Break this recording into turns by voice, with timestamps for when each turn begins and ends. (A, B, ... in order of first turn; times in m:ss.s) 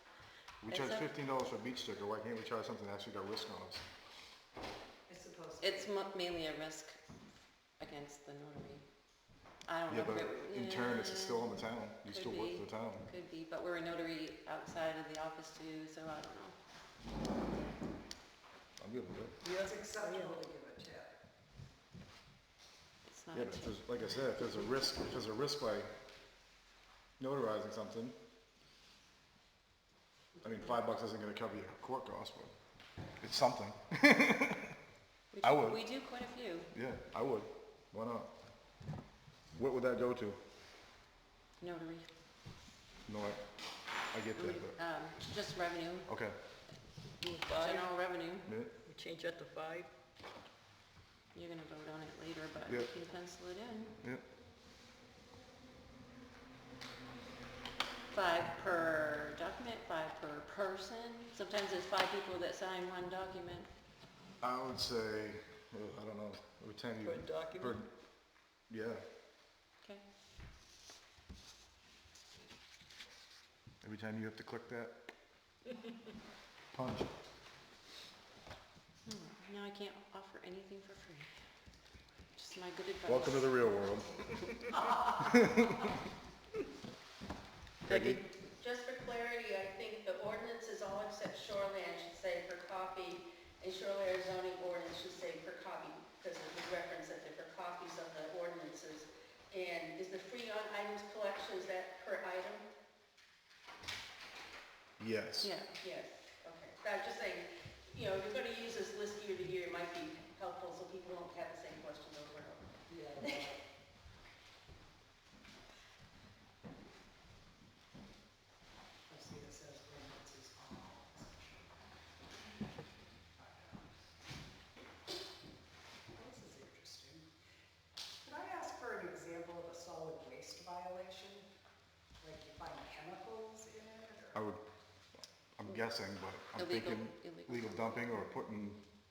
0:00.6-0:03.8 A
0:00.7-0:01.0 B
0:05.1-0:05.9 C
0:05.6-0:07.0 B
0:07.8-0:08.8 B
0:09.7-0:11.5 B
0:09.9-0:13.0 A
0:12.1-0:16.6 B
0:18.8-0:19.3 A
0:19.4-0:20.4 D
0:19.6-0:21.1 C
0:23.0-0:23.8 B
0:23.3-0:25.9 A
0:27.2-0:28.1 A
0:30.4-0:32.5 A
0:33.2-0:34.7 A
0:35.3-0:36.7 B
0:35.4-0:35.8 A
0:36.7-0:38.3 A
0:39.5-0:40.4 A
0:41.6-0:42.1 B
0:43.0-0:43.4 A
0:44.1-0:44.8 A
0:44.4-0:46.1 B
0:46.1-0:46.3 A
0:47.2-0:47.9 D
0:47.5-0:48.5 B
0:48.4-0:48.7 A
0:48.8-0:49.9 D
0:51.3-0:54.0 B
0:58.1-1:03.7 B
1:04.4-1:07.9 A
1:07.0-1:07.8 D
1:08.7-1:09.0 A
1:13.8-1:15.0 A
1:16.7-1:17.1 A
1:19.0-1:21.3 B
1:22.4-1:23.6 B
1:23.0-1:24.2 A
1:25.2-1:25.7 A
1:27.8-1:28.2 A
1:27.9-1:28.2 B
1:28.6-1:42.6 E
1:45.0-1:45.5 A
1:45.4-1:45.8 B
1:45.8-1:52.6 E
1:52.9-1:53.5 C
1:53.2-1:53.5 E
1:59.1-2:01.6 C
2:03.4-2:03.8 C
2:06.2-2:07.2 C
2:08.2-2:11.4 C
2:12.2-2:14.3 C
2:14.3-2:14.6 A
2:15.6-2:18.8 A
2:16.6-2:18.1 B